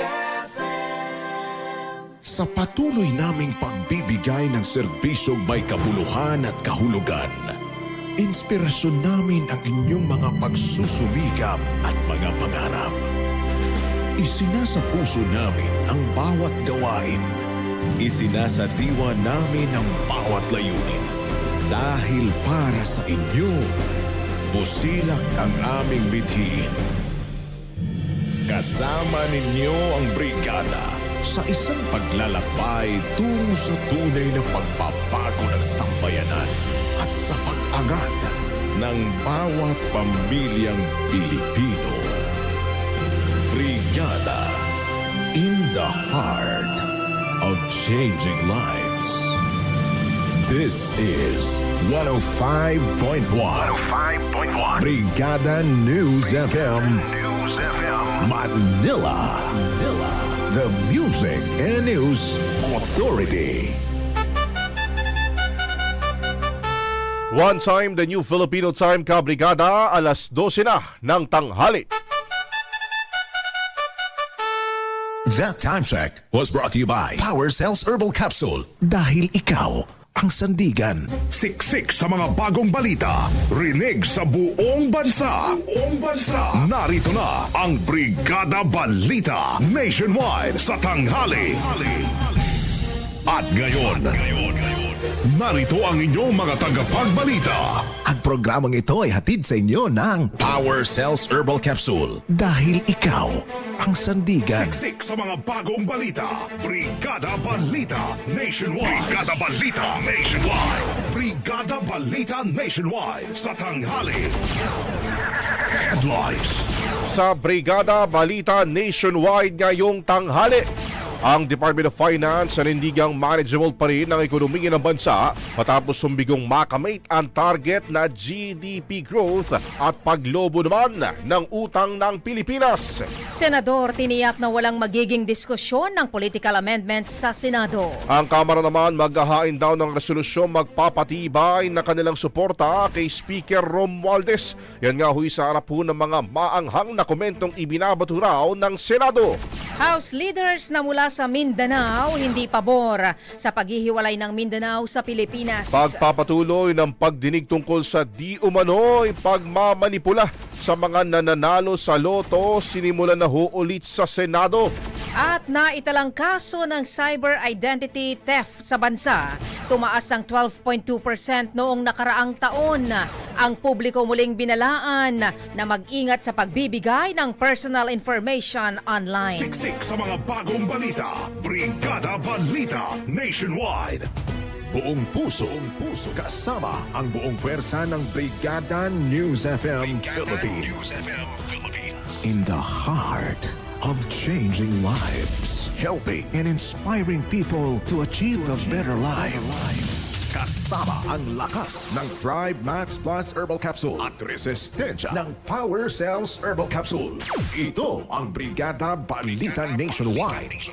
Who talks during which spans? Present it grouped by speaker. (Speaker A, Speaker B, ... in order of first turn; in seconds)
Speaker A: 2.2-7.5, 8.2-13.0, 14.2-17.3, 18.0-21.1, 21.7-23.7, 24.5-26.7, 28.5-42.2, 43.5-44.6, 45.3-46.9, 47.4-49.4, 50.4-53.8, 54.8-57.1, 58.1-63.8, 75.3-81.1, 98.0-104.8, 184.7-191.1, 192.2-210.6
Speaker B: 67.3-71.8, 117.1-120.7, 121.3-133.0, 138.1-149.3, 155.7-164.7
Speaker C: 81.3-92.2, 93.2-97.9, 104.4-114.3, 115.6-116.7, 179.3-184.1
Speaker D: 133.3-138.0, 149.8-155.9, 165.2-179.6